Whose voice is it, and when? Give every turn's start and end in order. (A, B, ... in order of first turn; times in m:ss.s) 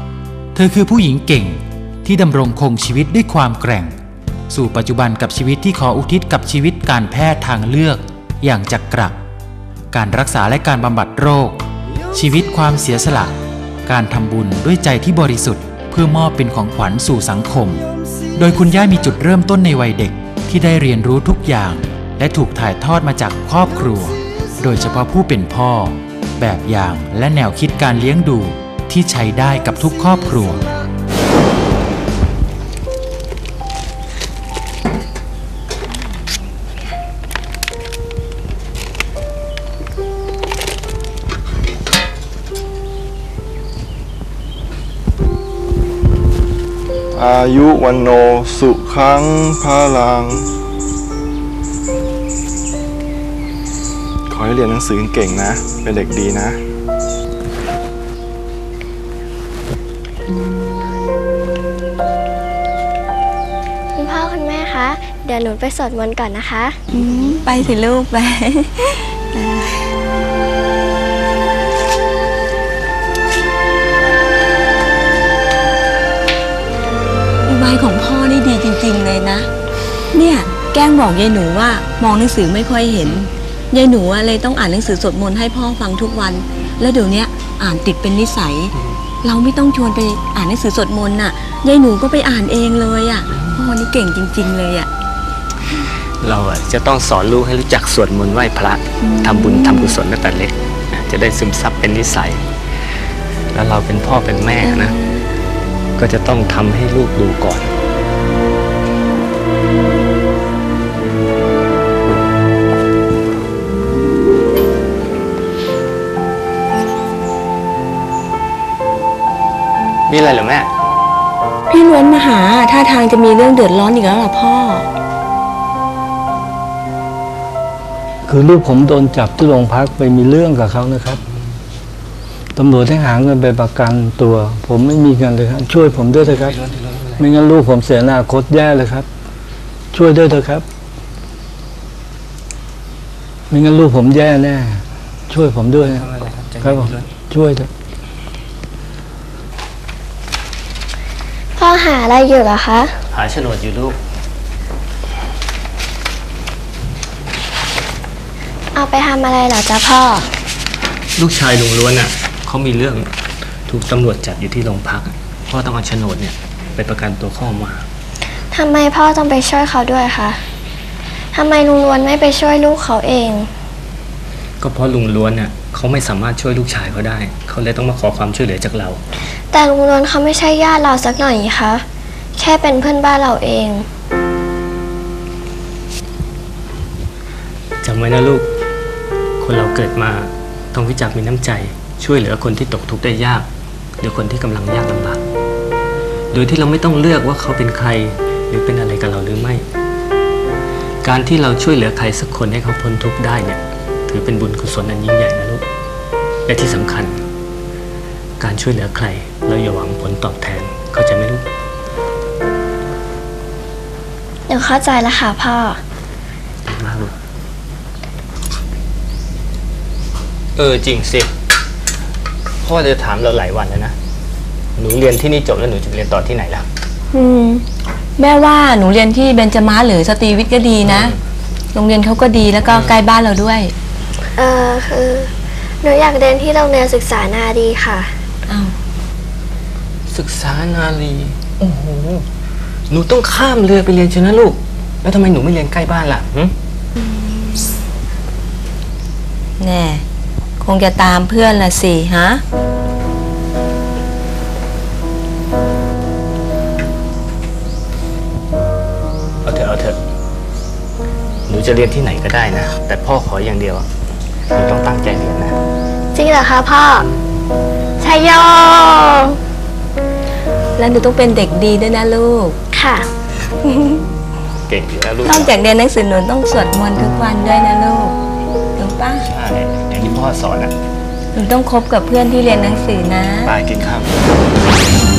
0:00.6-0:04.0 A
0:04.5-0:09.2 A
0:09.9-0:11.6 A
0:12.1-0:17.8 A
0:18.4-0:30.6 A
0:47.1-0:50.5 B
0:54.3-0:56.6 B
1:04.0-1:06.8 C
1:06.9-1:09.9 D
1:17.5-1:19.5 D
1:20.1-1:34.9 D
1:33.3-1:33.6 E
1:36.2-1:42.4 E
1:39.0-1:40.0 D
1:43.5-1:44.9 E
1:44.6-1:45.3 D
1:46.0-1:47.7 E
2:00.1-2:00.7 E
2:01.7-2:04.9 D
2:08.2-2:11.2 F
2:12.6-2:16.6 F
2:15.9-2:17.2 E
2:17.2-2:19.1 F
2:19.9-2:20.6 F
2:23.5-2:26.1 F
2:25.8-2:27.1 E
2:26.6-2:27.7 F
2:31.6-2:32.9 C
2:33.1-2:34.0 E
2:38.7-2:40.3 C
2:41.2-2:43.1 E
2:43.7-2:47.9 E
2:48.5-2:50.4 C
2:51.3-2:53.5 C
2:54.6-2:59.0 E
2:59.5-3:01.8 C
3:02.4-3:03.9 C
3:07.8-3:08.5 E
3:09.4-3:13.5 E
3:14.0-3:15.2 E
3:16.3-3:19.7 E
3:21.0-3:25.6 E
3:26.5-3:27.2 E
3:28.4-3:31.4 E
3:34.5-3:35.8 C
3:36.7-3:37.1 E
3:40.6-3:41.3 E
3:42.6-3:44.0 E
3:44.8-3:46.7 E
3:47.1-3:47.6 D
3:48.2-3:51.1 D
3:50.8-3:51.2 E
3:51.7-3:53.7 D
3:52.7-3:53.0 E
3:54.4-3:58.2 C
3:58.5-3:58.8 D
4:00.1-4:02.2 E
4:02.9-4:06.5 E
4:09.6-4:10.0 D
4:10.6-4:12.4 D
4:19.4-4:20.0 E
4:21.5-4:23.9 E
4:24.5-4:25.6 E
4:26.1-4:27.1 C
4:28.0-4:29.4 C
4:30.8-4:32.6 D
4:32.7-4:33.1 C
4:33.6-4:34.0 D
4:34.7-4:35.6 E
4:35.2-4:38.2 D
4:38.8-4:39.3 D
4:39.2-4:40.7 E
4:41.3-4:43.5 D
4:43.4-4:44.4 E